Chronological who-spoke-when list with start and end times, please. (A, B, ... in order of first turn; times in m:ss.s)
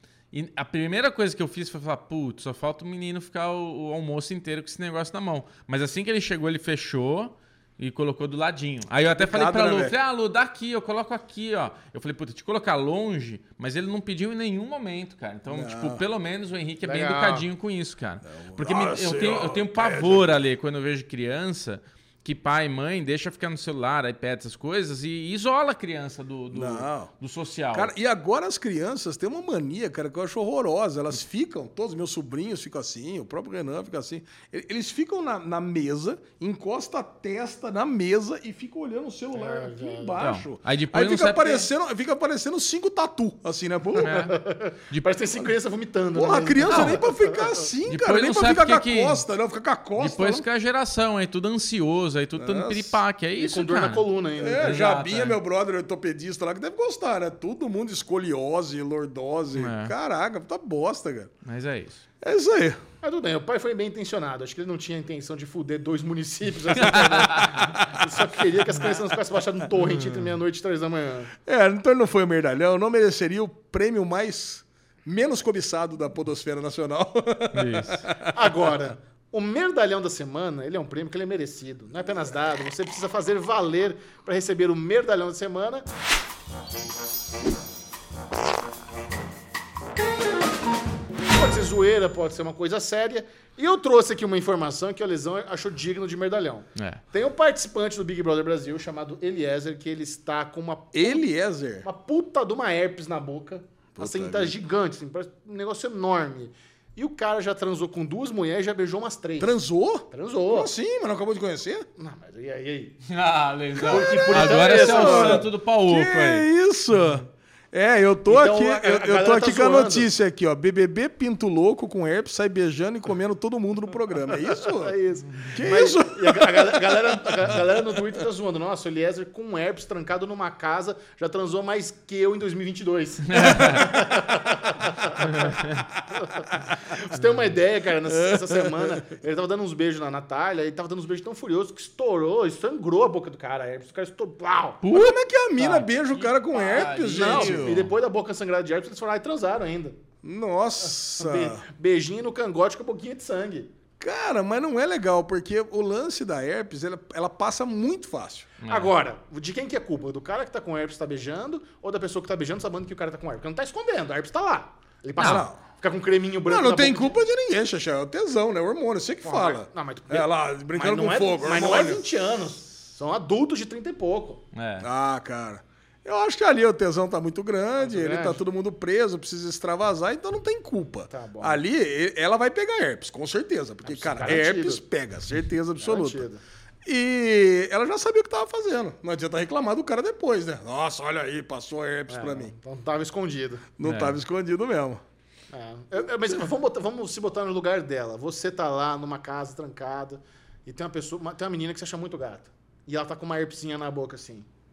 0:00.3-0:27.9 A
0:09.2-0:09.9 B
0:15.5-0:16.0 B
0:16.8-0:17.5 C
0:18.2-0:20.3 B
0:26.5-0:27.1 B
0:27.7-0:44.2 B
0:39.3-0:40.2 C
0:40.2-0:41.7 A
0:44.0-0:44.4 A
0:44.0-0:47.6 C
0:44.9-0:45.2 A
0:46.1-0:50.4 B
0:46.7-0:47.0 A
0:47.9-0:49.2 A
0:50.0-0:55.4 A
0:52.4-0:53.0 B
0:53.4-0:54.8 C
0:54.4-1:01.3 B
0:59.6-0:59.9 A
1:01.4-1:02.0 A
1:02.2-1:02.8 B
1:03.0-1:11.3 C
1:06.8-1:07.8 A
1:09.8-1:10.2 B
1:11.4-1:18.7 B
1:17.5-1:18.1 A
1:18.3-1:25.9 C
1:31.3-1:41.2 C
1:36.8-1:37.0 A
1:40.9-1:41.9 B
1:41.8-1:49.6 C
1:44.0-1:44.6 B
1:49.4-1:51.9 B
1:50.1-1:50.7 C
1:52.0-1:53.0 C
1:53.1-1:56.5 A
1:53.8-2:05.0 B
1:53.8-1:55.5 C
1:58.3-2:00.1 C
2:04.5-2:24.8 C
2:05.5-2:08.0 B
2:13.3-2:14.0 A
2:15.2-2:15.9 A
2:18.1-2:19.0 B
2:24.8-2:27.9 A
2:24.9-2:27.8 B
2:26.5-2:30.0 C
2:30.2-2:31.6 B
2:31.1-2:33.7 C
2:34.0-2:38.5 B
2:38.6-2:38.9 A
2:38.7-2:47.2 C
2:45.2-2:45.5 A
2:45.2-2:45.6 B
2:46.5-2:52.1 B
2:49.2-2:54.4 C
2:54.5-2:54.9 A
2:54.8-3:06.2 B
2:57.8-2:58.4 C
3:01.1-3:01.6 C
3:03.8-3:04.8 C
3:05.8-3:06.4 C
3:06.8-3:12.5 B
3:12.1-3:13.7 C
3:13.8-3:15.0 B
3:13.8-3:14.2 A
3:15.5-3:24.5 C